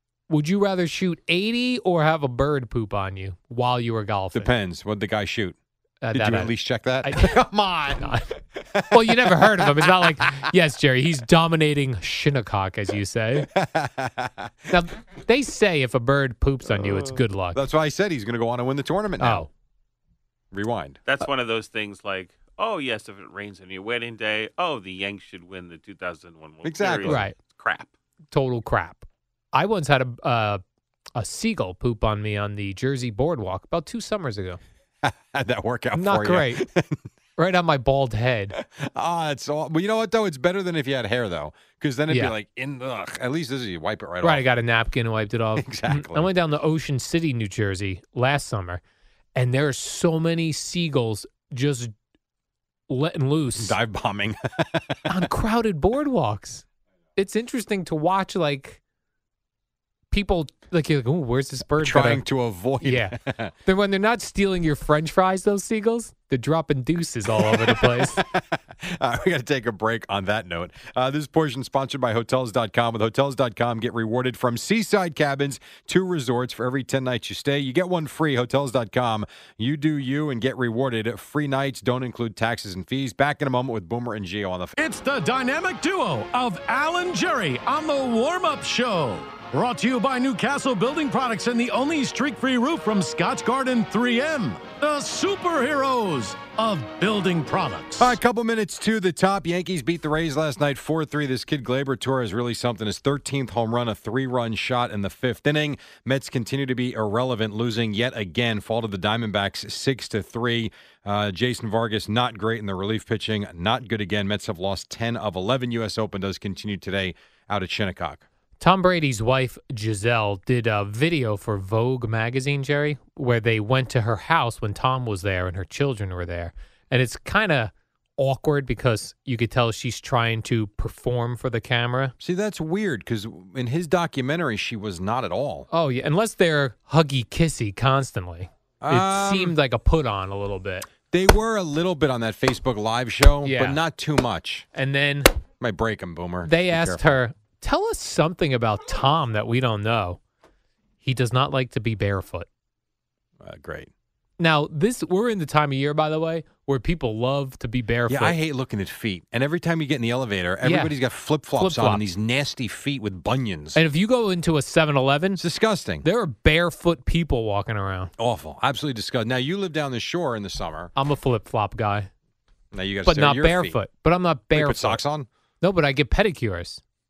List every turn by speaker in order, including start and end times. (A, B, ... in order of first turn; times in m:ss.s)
0:00.3-0:04.5 A
0:04.3-0:05.6 B
0:06.0-0:08.4 A
0:06.1-0:08.2 B
0:08.7-0:10.3 B
0:08.9-0:13.5 A
0:13.4-0:14.8 B
0:14.7-0:17.6 A
0:16.6-0:19.5 B
0:19.2-0:19.5 A
0:20.5-0:21.0 B
0:21.1-0:27.9 C
0:26.6-0:27.3 B
0:27.0-0:27.4 A
0:28.3-0:30.6 A
0:31.2-0:34.6 A
0:35.0-0:37.0 B
0:35.9-0:36.6 A
0:37.4-0:38.6 A
0:38.6-0:44.5 B
0:42.1-0:42.4 A
0:44.2-0:48.8 A
0:45.6-0:46.3 B
0:49.4-0:51.9 A
0:52.9-0:53.8 A
0:53.6-0:55.3 B
0:55.1-0:56.6 A
0:57.2-0:58.8 A
1:00.1-1:02.2 A
1:01.8-1:03.5 B
1:02.8-1:08.2 A
1:07.4-1:24.8 B
1:24.8-1:38.2 D
1:38.0-1:58.2 B
1:58.6-2:12.1 A
2:12.2-2:15.7 B
2:15.7-2:20.9 A
2:18.8-2:19.6 B
2:21.1-2:24.7 B
2:23.4-2:23.8 A
2:24.7-2:25.3 A
2:25.6-2:27.2 B
2:26.4-2:30.2 A
2:31.0-2:32.5 A
2:33.4-2:33.9 B
2:34.4-2:38.4 A
2:38.1-2:43.8 B
2:40.6-2:41.0 A
2:41.5-2:42.1 A
2:43.8-2:45.4 A
2:45.4-2:46.1 B
2:46.0-2:48.1 A
2:48.2-2:50.9 B
2:51.0-2:52.1 A
2:52.7-2:53.8 B
2:53.0-2:55.0 A
2:54.5-2:55.3 B
2:55.6-2:56.8 A